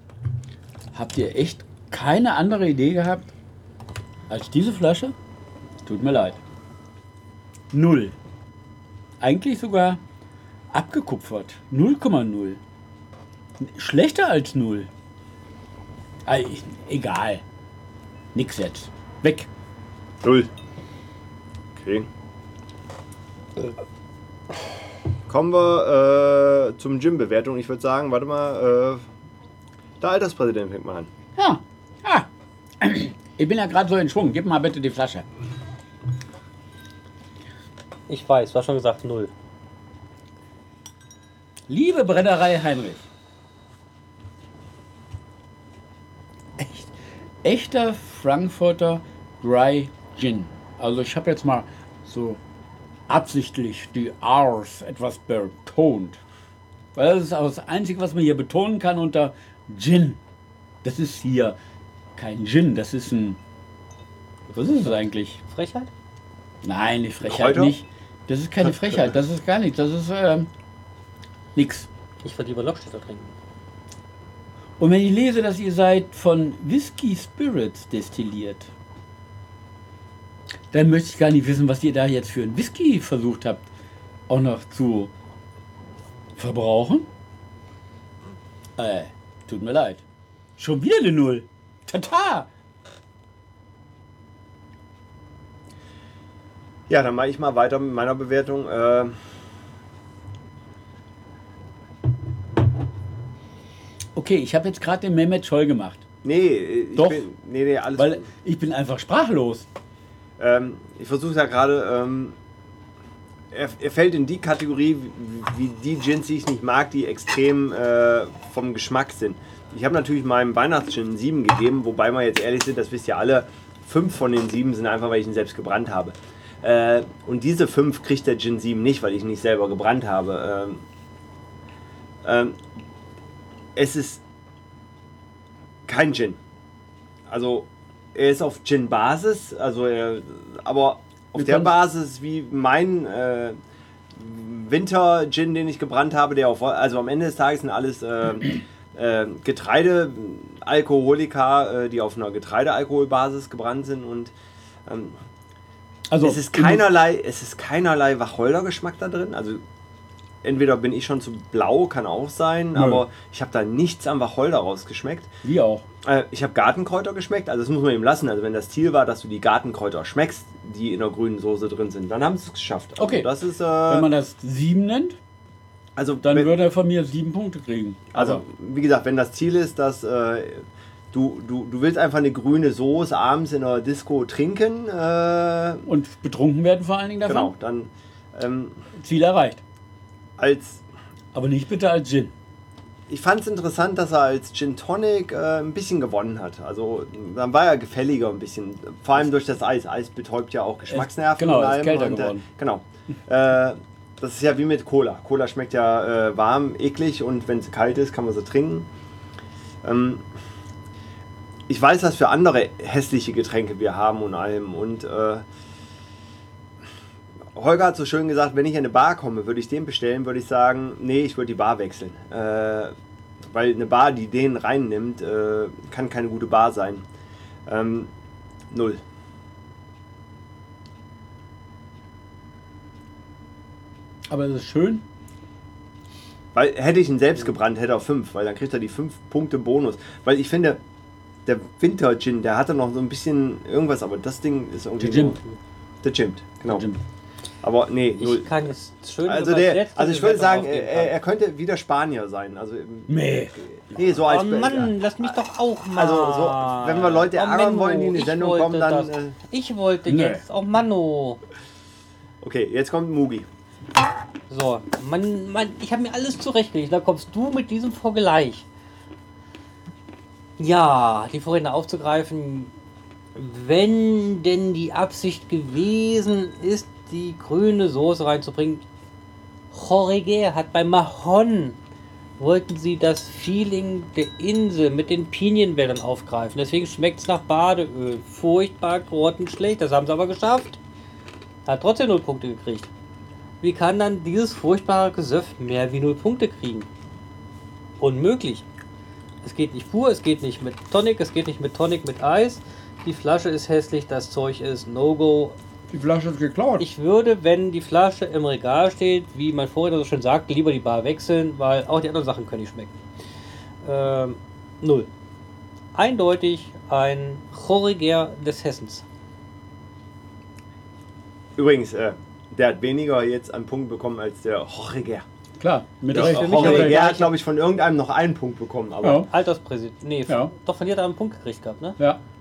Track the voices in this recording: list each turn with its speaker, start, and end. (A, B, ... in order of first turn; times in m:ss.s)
0:00.9-0:03.3 A
0:04.3-0:05.1 A
0:05.8-0:06.4 A
0:07.7-0:08.2 A
0:09.2-0:10.0 A
0:10.7-0:12.6 A
0:13.6-0:14.9 A
0:16.2-0:17.4 A
0:18.3-0:19.5 A
0:20.2-0:20.5 B
0:21.8-0:22.1 B
0:25.3-0:29.1 B
0:30.0-0:31.1 B
0:31.4-0:32.3 A
0:32.8-0:35.2 A
0:38.1-0:39.3 C
0:41.7-0:43.1 A
0:46.6-0:46.9 A
0:47.4-0:52.4 A
0:53.1-0:56.2 A
0:56.9-1:00.2 A
1:00.8-1:01.6 A
1:02.2-1:03.4 A
1:04.5-1:05.4 A
1:04.8-1:05.9 C
1:06.6-1:10.5 A
1:07.2-1:07.8 B
1:08.6-1:09.0 B
1:11.5-1:11.9 A
1:12.2-1:13.3 C
1:14.8-1:18.7 A
1:20.7-1:23.7 A
1:24.3-1:25.1 A
1:26.4-1:27.1 A
1:28.8-1:30.0 A
1:30.6-1:32.5 A
1:36.9-1:39.2 B
1:44.1-1:46.0 A
1:46.2-1:48.3 B
1:47.0-1:47.3 A
1:48.0-1:49.7 A
1:50.4-1:52.4 B
1:53.5-2:10.8 B
2:12.2-2:12.6 B
2:13.8-2:14.2 B
2:15.8-2:16.4 B
2:17.3-2:23.6 B
2:21.3-2:21.7 A
2:24.1-2:34.3 B
2:34.8-2:35.2 B
2:36.1-2:36.8 A
2:36.2-2:39.6 B
2:40.4-2:45.3 B
2:42.7-2:43.0 A
2:45.4-2:45.8 A
2:46.0-2:54.1 B
2:53.0-2:53.3 A
2:53.9-2:55.2 A
2:56.0-2:56.6 B
2:56.2-2:58.4 A
2:58.1-3:05.9 B
3:05.8-3:07.5 A
3:07.2-3:08.8 B
3:09.0-3:09.6 A
3:10.4-3:10.8 B
3:11.3-3:12.3 A
3:13.1-3:28.9 B
3:20.9-3:22.4 A
3:29.8-3:30.2 B
3:31.7-3:35.4 B
3:37.5-3:47.0 B
3:47.6-3:48.1 B
3:48.7-3:49.0 B
3:54.3-3:55.0 A
3:56.5-4:00.8 B
4:01.4-4:05.4 B
4:05.0-4:05.4 A
4:06.0-4:06.8 B
4:06.7-4:07.0 A
4:07.6-4:08.5 B
4:08.2-4:11.1 C
4:09.2-4:15.4 B
4:13.1-4:13.6 A
4:14.2-4:21.4 C
4:15.9-4:19.4 B
4:20.1-4:20.4 A
4:22.4-4:23.5 B
4:24.5-4:28.6 C
4:30.6-4:32.7 C
4:33.3-4:38.8 C
4:39.7-4:41.8 C
4:42.4-4:50.8 C
4:51.6-4:52.9 C
4:53.6-4:56.9 C
4:58.0-4:58.6 C
4:59.4-5:05.6 C
5:05.9-5:06.9 A
5:06.8-5:12.9 C
5:13.8-5:15.1 C
5:15.9-5:19.0 C
5:21.6-5:25.2 B
5:25.6-5:27.1 A
5:26.1-5:27.3 C
5:26.1-5:29.3 B
5:29.0-5:29.3 A
5:29.2-5:32.0 C
5:30.3-5:30.5 A